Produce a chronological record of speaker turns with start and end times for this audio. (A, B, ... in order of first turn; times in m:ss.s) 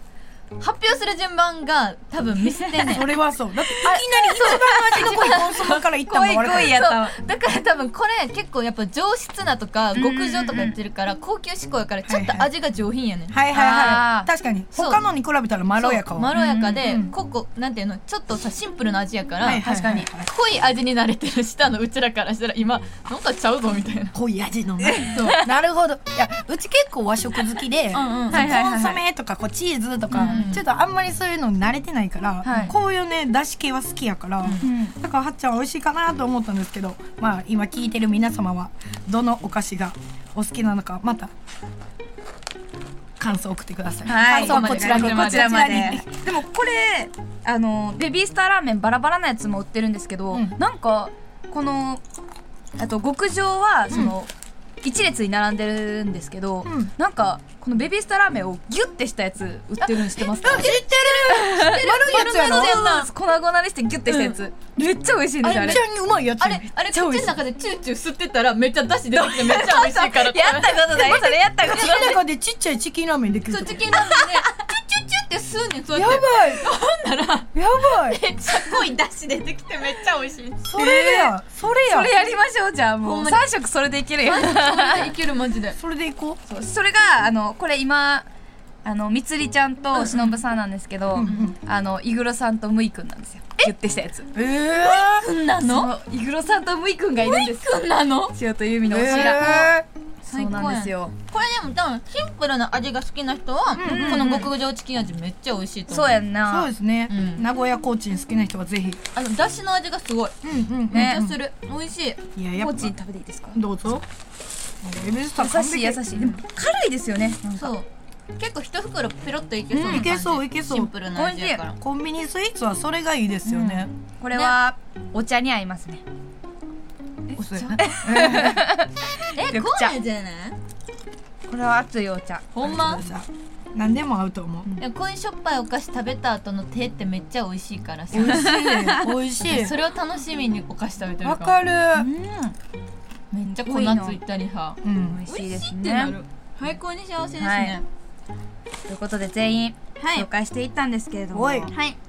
0:00.6-0:03.1 A
0:02.4-0:03.0 B
0:02.8-0:06.8 C
0:03.6-0:05.8 A
0:03.8-0:05.2 B
0:06.0-0:07.1 B
0:06.5-0:13.4 A
0:09.9-0:10.8 B
0:12.1-0:12.5 C
0:13.3-0:17.1 C
0:13.5-0:14.3 B
0:14.7-0:15.0 A
0:15.7-0:24.1 A
0:16.3-0:16.8 B
0:19.4-0:20.3 C
0:19.5-0:20.1 B
0:24.1-0:41.3 C
0:24.8-0:25.5 B
0:25.0-0:25.4 A
0:27.9-0:28.6 A
0:28.3-0:29.0 B
0:30.1-0:30.5 B
0:30.2-0:30.6 A
0:32.4-0:32.7 B
0:32.5-0:32.7 A
0:34.4-0:34.7 A
0:34.6-0:35.0 B
0:43.2-0:46.1 C
0:44.0-0:52.0 B
0:44.3-0:46.0 A
0:52.8-0:54.3 B
0:54.8-1:00.8 B
0:56.6-0:56.9 C
1:00.4-1:02.8 C
1:00.4-1:03.1 A
1:01.3-1:05.8 B
1:04.1-1:04.4 A
1:05.4-1:07.4 C
1:05.5-1:05.8 A
1:06.4-1:12.2 A
1:06.9-1:07.3 B
1:09.1-1:12.2 B
1:11.6-1:13.9 C
1:13.4-1:20.6 A
1:13.9-1:14.4 B
1:15.9-1:16.6 C
1:17.5-1:18.1 B
1:17.8-1:18.2 C
1:20.6-1:22.1 C
1:20.7-1:25.1 B
1:23.0-1:23.4 A
1:24.2-1:25.8 A
1:25.8-1:26.4 C
1:26.5-1:28.2 B
1:28.8-1:34.3 B
1:29.9-1:30.4 A
1:31.1-1:31.6 C
1:34.3-1:35.3 C
1:34.8-1:35.9 A
1:35.6-1:37.8 B
1:37.2-1:38.4 A
1:38.3-1:41.1 B
1:38.8-1:39.8 C
1:39.0-1:39.5 A
1:40.3-1:46.2 A
1:43.7-1:44.5 C
1:43.8-1:44.5 B
1:45.9-1:46.7 B
1:46.4-1:49.0 C
1:47.1-1:47.4 A
1:49.1-1:50.4 A
1:50.4-1:51.4 C
1:50.9-1:52.2 A
1:50.9-1:51.4 B
1:52.3-1:52.9 C
1:52.5-1:53.6 B
1:53.5-1:54.0 C
1:54.8-1:56.0 C
1:55.4-1:57.7 B
1:57.6-2:01.8 A
1:59.7-2:00.1 B
1:59.8-2:00.9 C
2:00.9-2:01.6 B
2:01.8-2:03.9 C
2:03.4-2:06.0 B
2:04.3-2:04.6 A
2:07.3-2:09.9 B
2:07.4-2:08.6 C
2:07.5-2:07.8 A
2:09.3-2:10.6 A
2:11.5-2:12.5 B
2:12.5-2:13.0 A
2:12.6-2:14.7 C
2:14.8-2:18.6 A
2:18.1-2:19.8 C
2:18.1-2:19.2 B
2:19.5-2:21.6 A
2:21.2-2:22.1 C
2:21.9-2:22.5 B
2:23.3-2:27.8 A
2:23.4-2:24.2 B
2:24.8-2:25.2 C
2:25.0-2:26.2 B
2:27.4-2:27.8 B
2:28.9-2:31.7 B
2:30.0-2:30.3 A
2:31.3-2:31.7 C
2:31.7-2:32.0 A